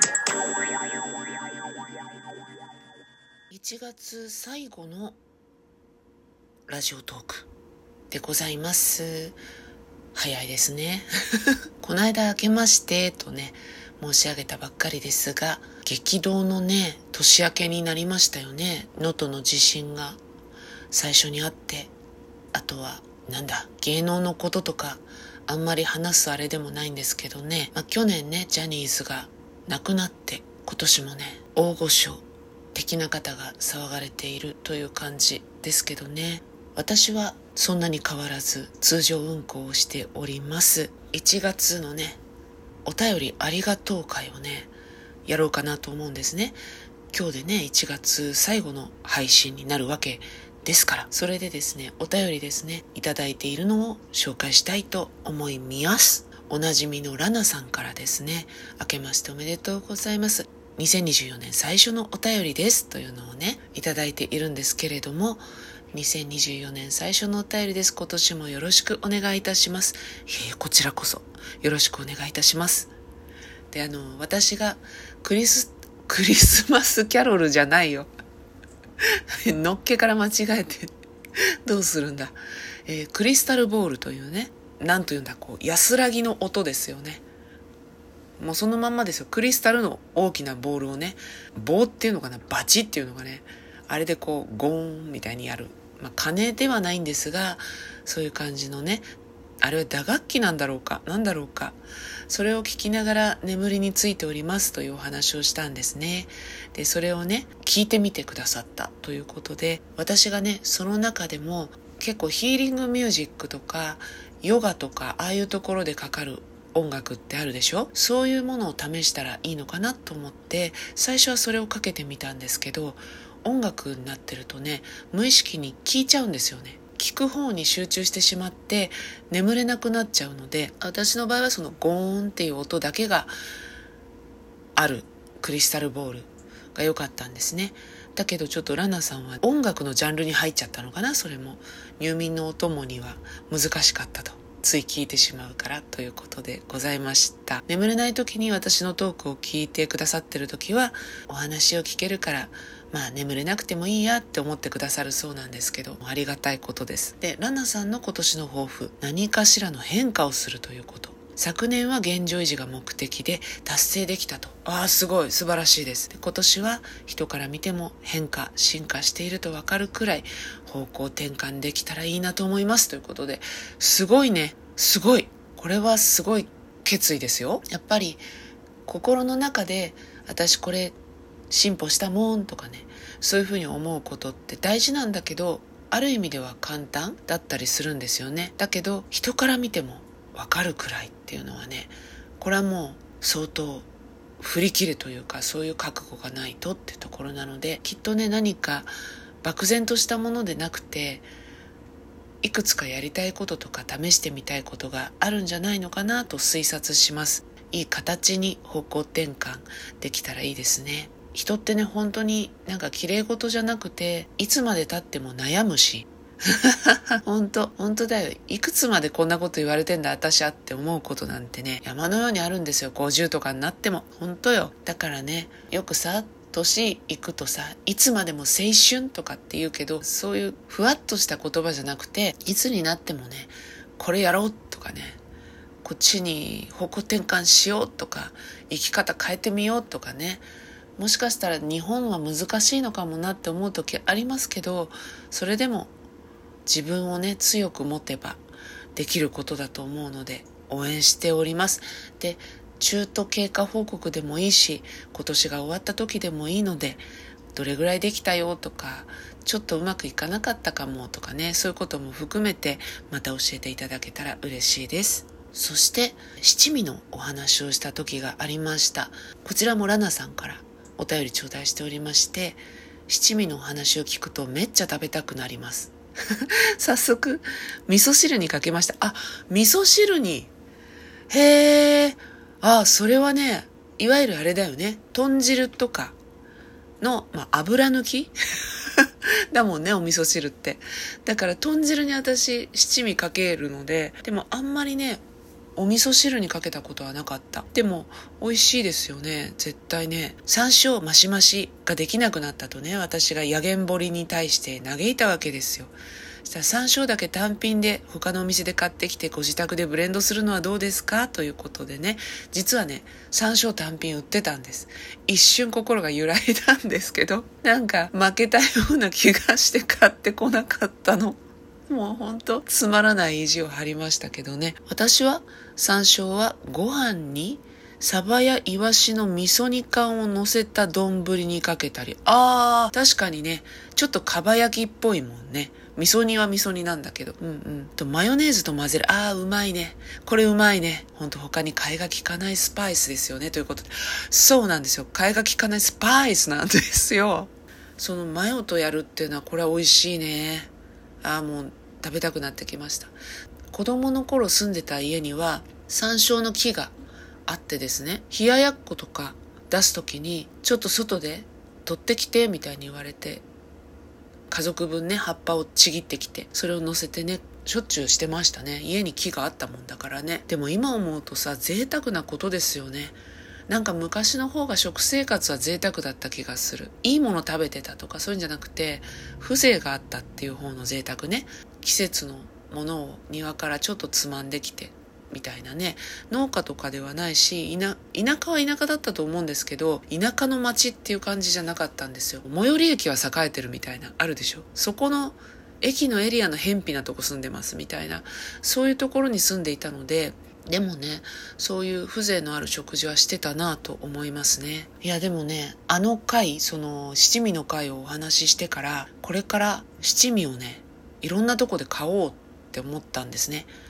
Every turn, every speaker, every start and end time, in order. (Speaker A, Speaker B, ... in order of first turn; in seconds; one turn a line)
Speaker A: 3.5-5.2
Speaker A: 6.7-7.5
Speaker A: 8.1-9.4
Speaker A: 10.1-11.1
Speaker A: 11.8-20.2
Speaker A: 20.9-21.9
Speaker A: 22.5-42.2
Speaker A: 42.8-44.7
Speaker A: 45.2-46.6
Speaker A: 47.1-72.9
Speaker A: 73.7-78.1
Speaker A: 79.4-80.9
Speaker A: 81.6-87.2
Speaker A: 88.4-99.1
Speaker A: 99.6-133.3
Speaker A: 134.8-178.2
Speaker A: 178.8-180.9
Speaker A: 181.5-193.9
Speaker A: 194.4-198.9
Speaker A: 199.4-201.3
Speaker A: 202.4-235.2
Speaker A: 235.8-245.9
Speaker A: 246.7-248.4
Speaker A: 248.9-280.5
Speaker A: 281.3-286.1
Speaker A: 287.0-288.3
Speaker A: 289.0-295.2
Speaker A: 295.8-350.7
Speaker A: 351.2-353.2
Speaker A: 353.7-356.9
Speaker A: 357.5-363.4
Speaker A: 364.5-413.7